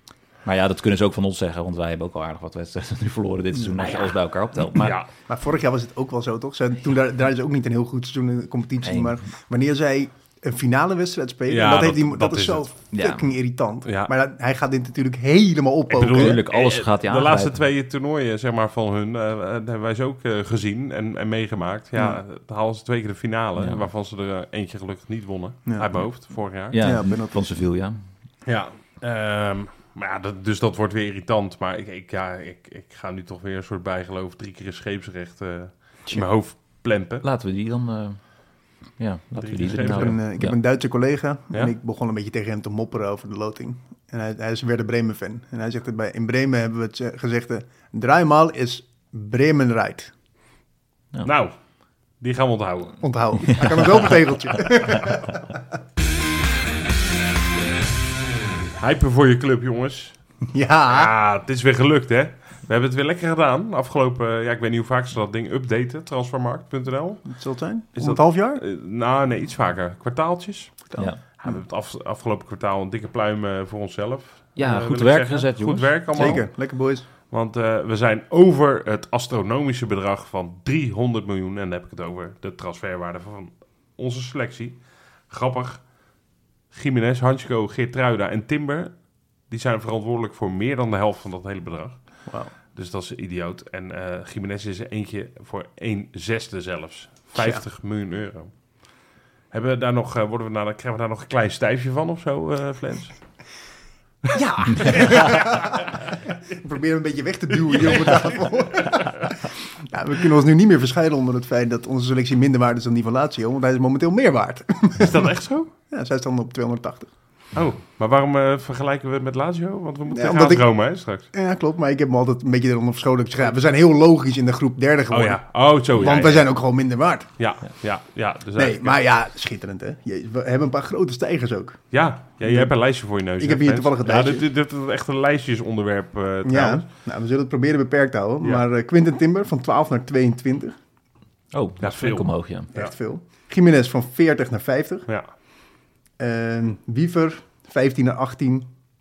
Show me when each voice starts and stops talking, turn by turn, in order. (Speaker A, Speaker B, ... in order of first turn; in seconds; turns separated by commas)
Speaker A: 0.5-5.0, Speaker B: 3.6-4.0, Speaker C: 4.8-5.1, Speaker B: 5.3-16.4, Speaker A: 8.8-9.2, Speaker C: 11.5-12.8, Speaker A: 12.9-13.2, Speaker C: 13.8-14.1, Speaker C: 15.9-26.9, Speaker A: 16.1-17.6, Speaker B: 22.0-22.2, Speaker A: 23.6-23.9, Speaker B: 25.7-26.0, Speaker A: 26.7-28.0, Speaker B: 26.8-27.5, Speaker C: 28.4-37.2, Speaker A: 37.2-40.6, Speaker C: 39.4-40.2, Speaker B: 39.9-50.1, Speaker C: 51.2-51.5, Speaker C: 52.2-53.1, Speaker B: 53.0-55.6, Speaker A: 53.5-54.0, Speaker C: 58.8-60.2, Speaker B: 60.5-61.1, Speaker C: 60.9-67.4, Speaker B: 67.3-68.6, Speaker C: 67.9-85.9, Speaker B: 70.9-71.6, Speaker A: 74.6-76.4, Speaker B: 76.1-77.1, Speaker C: 86.7-98.7, Speaker B: 92.3-92.5, Speaker B: 97.3-97.6, Speaker C: 99.5-103.3, Speaker B: 104.3-106.0, Speaker C: 104.9-105.9, Speaker B: 106.5-115.3, Speaker C: 107.7-109.0, Speaker C: 115.0-115.7, Speaker B: 115.9-117.1, Speaker C: 117.5-121.3, Speaker B: 120.1-127.3, Speaker C: 125.1-126.7, Speaker C: 127.4-129.1, Speaker B: 128.6-134.5, Speaker C: 131.9-136.9, Speaker B: 136.4-140.8, Speaker A: 141.5-142.7, Speaker C: 141.8-142.9, Speaker B: 142.7-145.1, Speaker B: 146.2-148.7